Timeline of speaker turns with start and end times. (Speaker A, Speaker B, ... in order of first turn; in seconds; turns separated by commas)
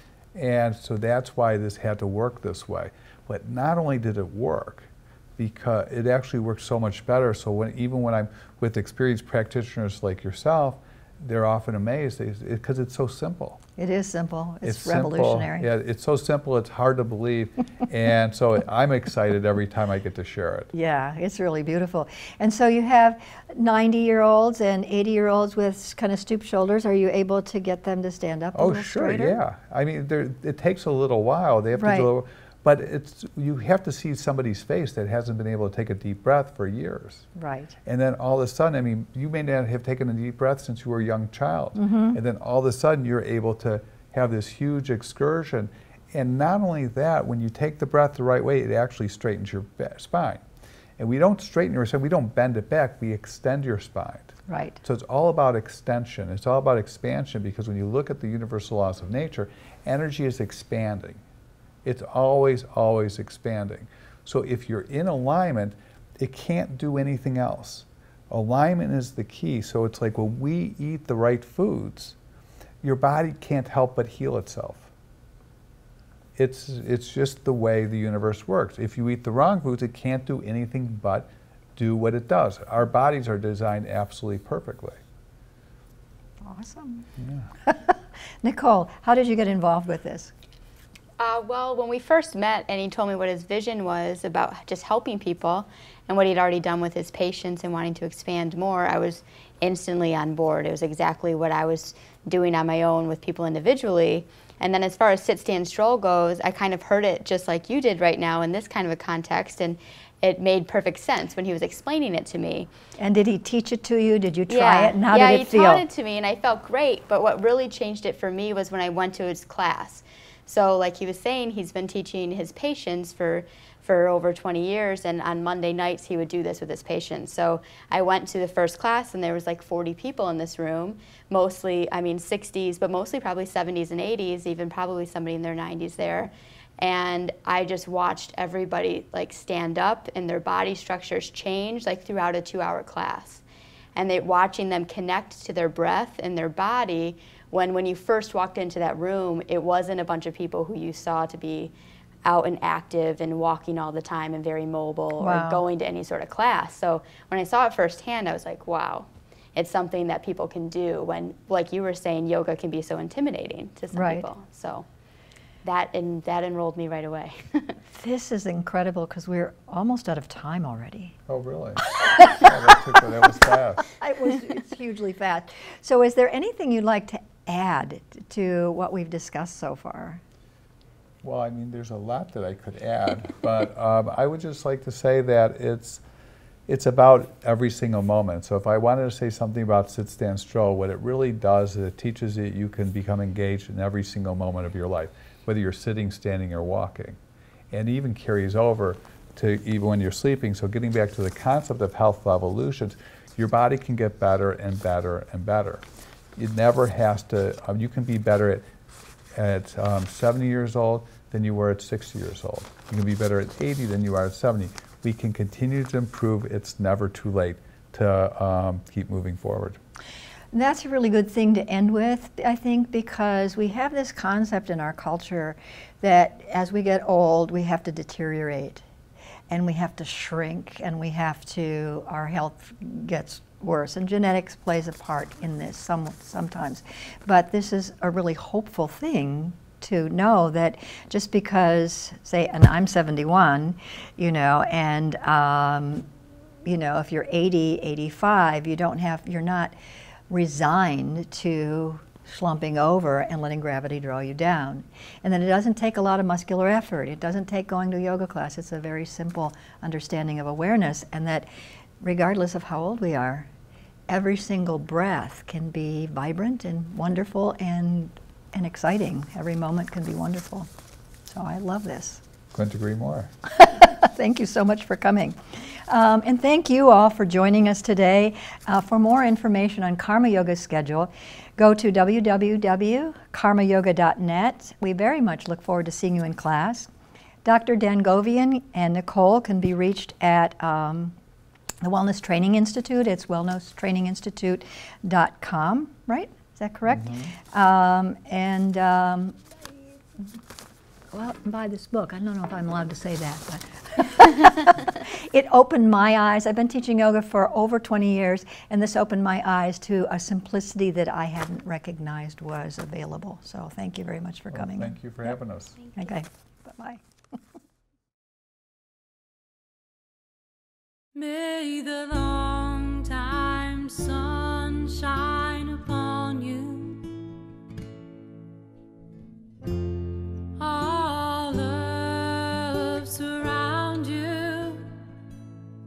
Speaker A: 0.3-13.6, Speaker B: 13.8-15.7, Speaker A: 14.6-20.7, Speaker B: 20.7-29.4, Speaker A: 28.5-37.3, Speaker B: 31.8-32.1, Speaker B: 37.4-37.8, Speaker A: 37.8-50.4, Speaker B: 41.8-42.2, Speaker A: 51.0-61.2, Speaker B: 54.5-54.8, Speaker A: 61.8-72.2, Speaker A: 72.8-74.9, Speaker A: 76.3-85.0, Speaker B: 86.4-87.1, Speaker B: 87.6-90.3, Speaker C: 91.2-112.7, Speaker B: 113.0-115.8, Speaker C: 114.5-143.4, Speaker C: 143.9-151.7, Speaker C: 152.2-164.8, Speaker B: 155.2-155.6, Speaker B: 163.9-164.3, Speaker C: 165.6-167.8, Speaker B: 167.9-171.2, Speaker A: 171.3-173.8, Speaker B: 174.0-180.2, Speaker A: 181.2-186.0, Speaker A: 186.7-197.2, Speaker A: 197.7-205.8, Speaker A: 206.3-208.7, Speaker A: 209.3-219.8, Speaker B: 220.5-228.8, Speaker B: 229.5-246.1, Speaker B: 246.6-249.7, Speaker B: 250.3-261.5, Speaker B: 262.0-263.5, Speaker B: 264.1-270.7, Speaker B: 271.3-272.2, Speaker A: 272.5-273.3, Speaker B: 273.5-286.9, Speaker B: 287.4-291.1, Speaker B: 291.8-299.4, Speaker A: 297.0-297.3, Speaker B: 301.1-315.0, Speaker A: 314.5-315.8, Speaker B: 315.9-317.0, Speaker D: 321.1-327.1, Speaker D: 330.6-334.8